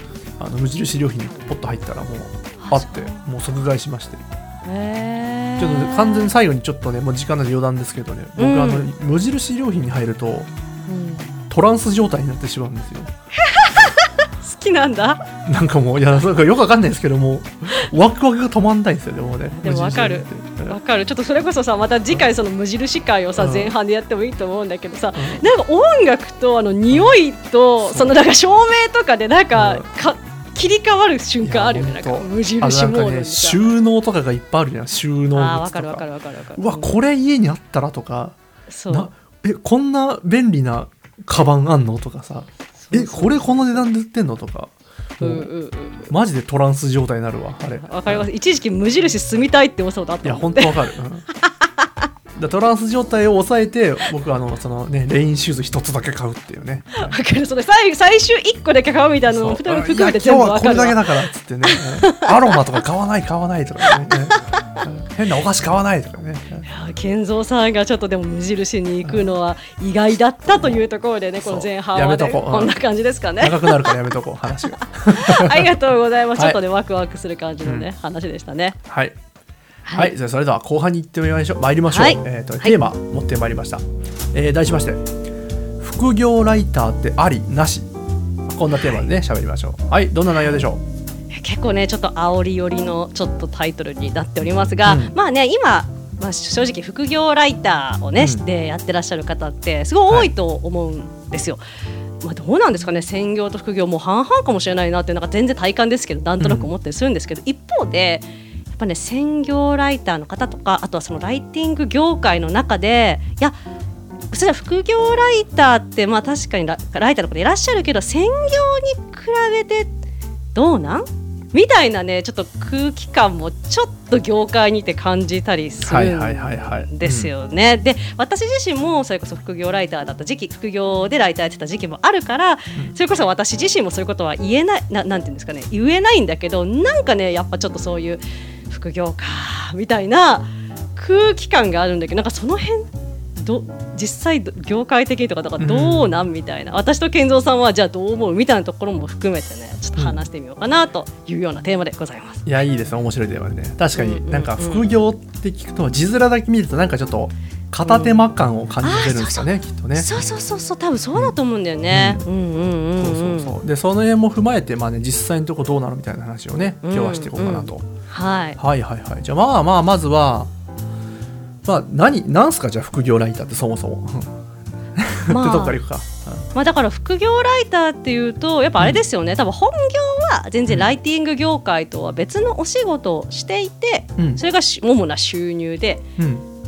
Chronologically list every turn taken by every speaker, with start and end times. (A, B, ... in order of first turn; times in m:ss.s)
0:00.4-0:04.2 A
0:02.6-0:03.2 B
0:04.6-0:06.3 B
0:05.6-0:10.5 A
0:08.4-0:08.9 B
0:10.9-0:11.4 B
0:11.5-0:13.1 A
0:13.4-0:15.3 B
0:15.4-0:20.8 A
0:19.6-0:33.6 B
0:23.4-0:23.7 A
0:25.2-0:25.4 A
0:27.8-0:28.1 A
0:29.5-0:29.8 A
0:31.4-0:36.0 A
0:35.3-0:36.9 B
0:36.6-0:38.4 A
0:38.7-0:39.1 B
0:38.9-0:45.5 A
0:42.8-0:43.8 B
0:45.2-0:46.1 B
0:46.1-0:48.3 A
0:47.8-0:50.8 B
0:50.2-0:51.3 A
0:51.4-0:51.9 B
0:52.3-0:57.2 A
0:57.0-1:02.6 B
0:59.3-1:06.6 A
1:03.9-1:04.6 B
1:06.6-1:14.0 B
1:11.4-1:12.8 A
1:13.4-1:15.7 A
1:14.8-1:18.8 B
1:18.9-1:19.2 A
1:19.8-1:20.1 B
1:19.9-1:25.0 A
1:21.9-1:22.8 B
1:25.8-1:27.9 A
1:28.5-1:30.8 A
1:31.3-1:41.6 B
1:34.8-1:35.1 A
1:38.2-1:38.4 A
1:42.2-1:53.6 B
1:46.4-1:46.7 A
1:54.3-1:59.9 B
2:00.5-2:32.4 B
2:05.8-2:07.3 A
2:25.6-2:26.2 A
2:32.4-2:40.1 A
2:34.0-2:34.9 B
2:37.8-2:38.2 B
2:38.8-2:43.6 B
2:41.9-2:42.2 A
2:43.0-2:47.8 A
2:46.8-2:48.6 B
2:48.6-2:50.5 A
2:51.6-2:54.4 A
2:54.9-2:56.4 A
2:55.3-2:55.8 B
2:56.5-3:06.0 B
3:04.2-3:04.4 A
3:06.2-3:06.4 A